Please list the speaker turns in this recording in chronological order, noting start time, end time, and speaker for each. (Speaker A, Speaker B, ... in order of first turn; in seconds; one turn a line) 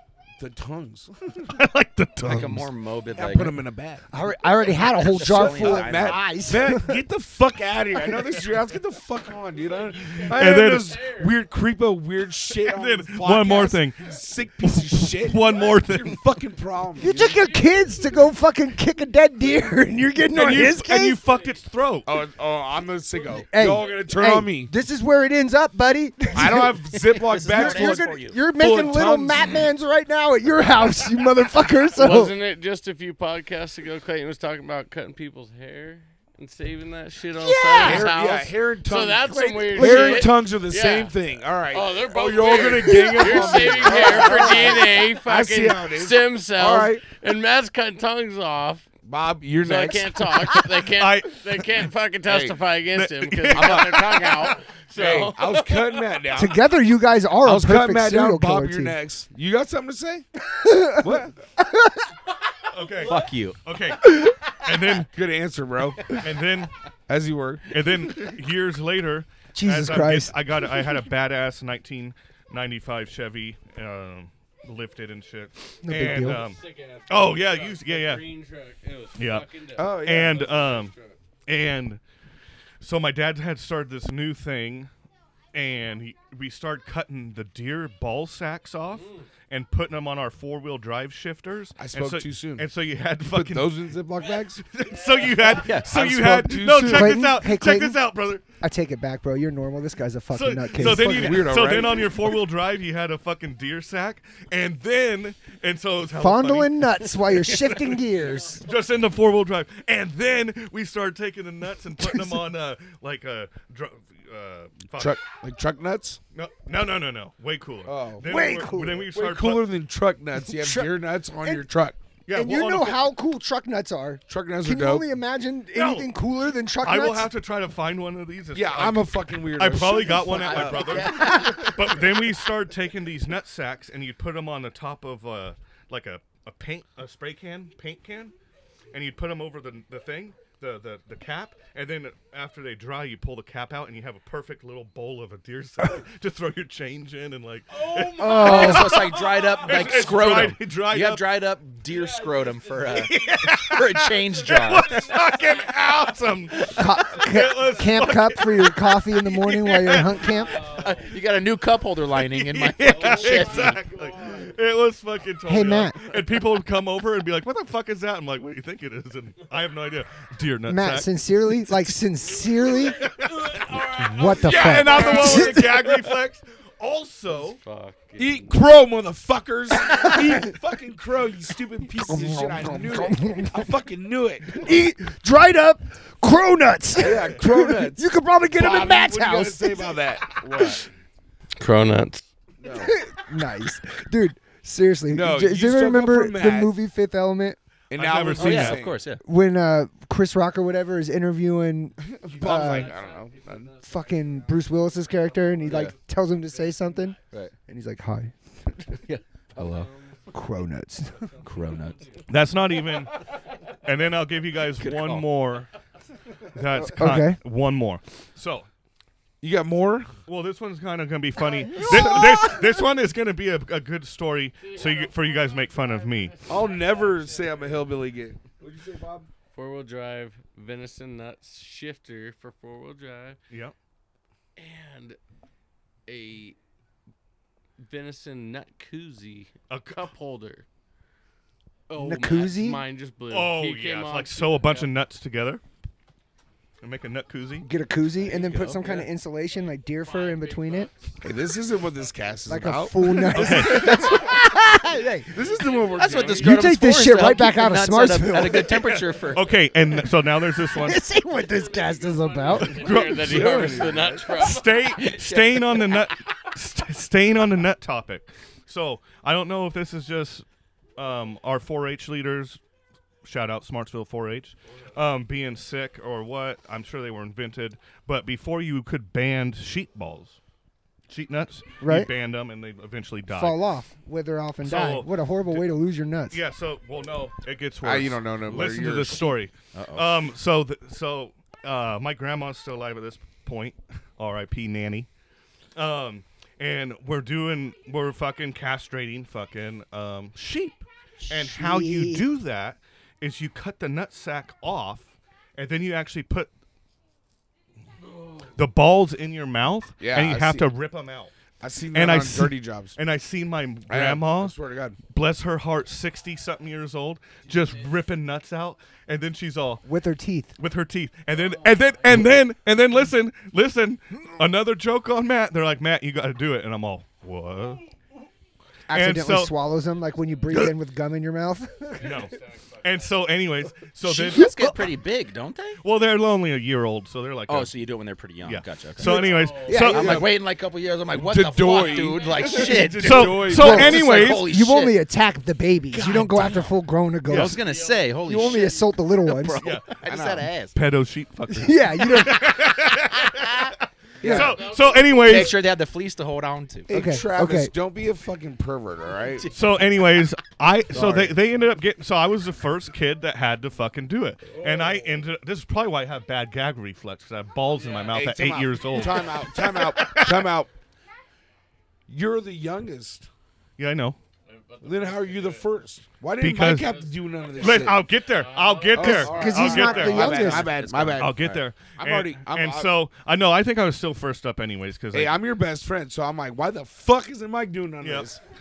Speaker A: 0.4-1.6
Speaker B: 1.5-2.7
Speaker C: 2.2-3.6
Speaker A: 3.1-4.0
Speaker D: 4.1-7.0
Speaker C: 4.9-6.3
Speaker A: 5.2-17.4
Speaker E: 10.0-11.3
Speaker B: 10.3-11.0
Speaker B: 12.7-14.1
Speaker B: 15.1-16.2
Speaker D: 17.0-21.2
Speaker B: 20.3-22.1
Speaker A: 22.1-24.7
Speaker D: 23.5-26.8
Speaker A: 26.3-29.6
Speaker C: 27.0-28.4
Speaker D: 27.4-32.4
Speaker E: 32.0-41.1
Speaker D: 37.3-38.1
Speaker A: 37.8-47.0
Speaker D: 39.3-40.3
Speaker E: 41.7-48.9
Speaker D: 42.9-44.5
Speaker A: 49.0-50.3
Speaker E: 49.6-56.0
Speaker B: 51.0-51.5
Speaker A: 52.3-52.6
Speaker B: 53.0-54.5
Speaker A: 53.5-54.1
Speaker A: 55.0-56.6
Speaker D: 56.4-59.0
Speaker A: 57.4-60.2
Speaker D: 60.5-62.1
Speaker A: 61.0-61.3
Speaker B: 62.7-65.1
Speaker C: 63.0-63.6
Speaker A: 65.1-66.2
Speaker B: 66.1-66.7
Speaker A: 67.1-67.7
Speaker B: 67.7-78.2
Speaker D: 69.6-70.3
Speaker D: 75.8-76.4
Speaker E: 76.1-81.2
Speaker B: 79.2-80.9
Speaker A: 79.8-80.5
Speaker B: 81.5-82.0
Speaker B: 82.8-84.9
Speaker B: 85.5-93.8
Speaker A: 91.8-92.7
Speaker A: 93.3-94.6
Speaker B: 94.7-98.4
Speaker C: 95.6-96.0
Speaker A: 95.8-97.2
Speaker D: 96.8-98.0
Speaker D: 98.6-101.7
Speaker B: 100.3-107.8
Speaker A: 100.8-102.2
Speaker D: 106.1-108.7
Speaker B: 108.6-115.2
Speaker D: 112.0-112.4
Speaker A: 115.0-116.2
Speaker B: 116.3-119.7
Speaker A: 117.9-118.3
Speaker D: 118.3-119.1
Speaker A: 119.1-122.0
Speaker D: 120.5-120.9
Speaker B: 122.3-123.0
Speaker D: 122.3-127.3
Speaker A: 124.3-125.1
Speaker B: 125.7-126.1
Speaker B: 126.8-138.3
Speaker A: 128.5-132.0
Speaker C: 130.4-131.7
Speaker D: 131.2-131.6
Speaker B: 138.9-151.3
Speaker E: 147.7-148.7
Speaker D: 148.2-149.0
Speaker C: 148.3-155.1
Speaker E: 152.0-153.1
Speaker B: 152.9-160.3
Speaker E: 155.1-155.7
Speaker D: 156.7-160.7
Speaker E: 160.2-161.1
Speaker C: 160.7-163.8
Speaker B: 162.1-171.1
Speaker E: 162.9-164.5
Speaker D: 165.5-166.0
Speaker D: 170.7-173.1
Speaker B: 172.9-177.6
Speaker E: 173.3-175.4
Speaker D: 173.7-175.8
Speaker A: 174.6-175.5
Speaker E: 177.3-178.5
Speaker A: 178.2-184.8
Speaker D: 179.8-180.5
Speaker D: 182.0-183.7
Speaker D: 184.5-190.0
Speaker A: 187.0-190.8
Speaker E: 191.6-192.2
Speaker A: 192.6-192.9
Speaker D: 192.7-197.6
Speaker A: 195.1-196.7
Speaker A: 197.9-199.0
Speaker B: 197.9-198.9
Speaker C: 198.4-199.2
Speaker D: 199.2-203.0
Speaker A: 202.1-203.8
Speaker E: 202.3-205.9
Speaker D: 203.8-208.8
Speaker E: 206.5-207.2
Speaker C: 209.0-209.9
Speaker E: 209.6-210.3
Speaker D: 210.3-211.4
Speaker E: 211.2-212.2
Speaker C: 211.4-212.1
Speaker B: 212.3-213.2
Speaker E: 212.8-213.4
Speaker B: 213.8-215.7
Speaker C: 214.8-215.3
Speaker B: 216.6-218.7
Speaker D: 216.8-217.4
Speaker A: 219.4-220.1
Speaker B: 220.3-226.5
Speaker D: 221.7-222.6
Speaker A: 221.8-222.3
Speaker E: 224.6-227.8
Speaker A: 226.5-229.3
Speaker E: 229.5-233.4
Speaker E: 234.6-235.2
Speaker E: 236.1-236.6
Speaker E: 237.8-240.7
Speaker B: 239.7-240.1
Speaker E: 241.9-244.9
Speaker D: 242.0-242.8
Speaker B: 243.3-245.6
Speaker B: 246.8-247.7
Speaker D: 247.6-250.9
Speaker E: 248.2-249.1
Speaker C: 248.5-248.8
Speaker E: 250.0-251.2
Speaker A: 251.2-254.1
Speaker D: 252.5-255.3
Speaker B: 253.3-254.1
Speaker E: 253.9-254.4
Speaker E: 255.2-256.5
Speaker A: 255.3-256.6
Speaker C: 255.9-259.5
Speaker D: 256.4-258.8
Speaker B: 258.7-261.0
Speaker D: 260.6-263.0
Speaker E: 261.3-265.1
Speaker B: 262.5-270.4
Speaker A: 263.0-264.3
Speaker C: 265.1-265.9
Speaker B: 271.0-272.6
Speaker B: 273.2-280.4
Speaker B: 281.1-283.6
Speaker D: 281.8-282.1
Speaker D: 283.3-286.4
Speaker B: 284.6-285.7
Speaker B: 286.3-295.1
Speaker A: 287.8-289.3
Speaker C: 289.7-290.1
Speaker B: 295.8-306.5
Speaker D: 301.2-302.2
Speaker B: 308.5-311.3
Speaker A: 310.0-310.7
Speaker A: 311.6-313.0
Speaker B: 311.9-314.6
Speaker A: 313.9-315.0
Speaker B: 315.1-319.9
Speaker D: 319.9-320.5
Speaker B: 320.6-327.8
Speaker D: 328.9-332.1
Speaker B: 328.9-329.5
Speaker B: 330.5-330.8
Speaker E: 332.0-333.1
Speaker B: 332.0-334.8
Speaker C: 334.0-335.8
Speaker B: 335.8-337.7
Speaker C: 337.5-339.3
Speaker B: 338.4-340.3
Speaker D: 339.0-340.3
Speaker E: 339.1-339.9
Speaker C: 339.8-345.0
Speaker A: 339.9-340.2
Speaker A: 341.1-344.0
Speaker E: 342.0-342.9
Speaker B: 342.8-344.5
Speaker D: 343.4-347.6
Speaker C: 345.9-346.7
Speaker B: 347.3-347.6
Speaker C: 347.3-350.8
Speaker E: 347.5-348.8
Speaker D: 348.2-349.7
Speaker B: 349.6-349.9
Speaker A: 350.0-350.5
Speaker B: 350.7-355.6
Speaker D: 351.5-352.6
Speaker C: 353.3-353.7
Speaker A: 354.2-354.6
Speaker D: 354.2-354.6
Speaker E: 354.3-355.4
Speaker C: 355.2-356.9
Speaker A: 356.9-359.5
Speaker D: 356.9-357.7
Speaker B: 359.5-370.5
Speaker A: 361.0-361.2
Speaker C: 361.0-361.3
Speaker E: 364.6-365.0
Speaker E: 367.8-368.1
Speaker A: 368.1-370.7
Speaker A: 372.1-373.3
Speaker B: 373.8-374.2
Speaker E: 374.5-375.7
Speaker A: 374.8-378.1
Speaker B: 376.4-376.9
Speaker E: 376.8-380.2
Speaker B: 377.5-380.5
Speaker A: 378.9-382.9
Speaker D: 379.1-380.7
Speaker C: 380.2-381.6
Speaker B: 381.1-385.4
Speaker A: 385.1-388.4
Speaker B: 388.0-388.3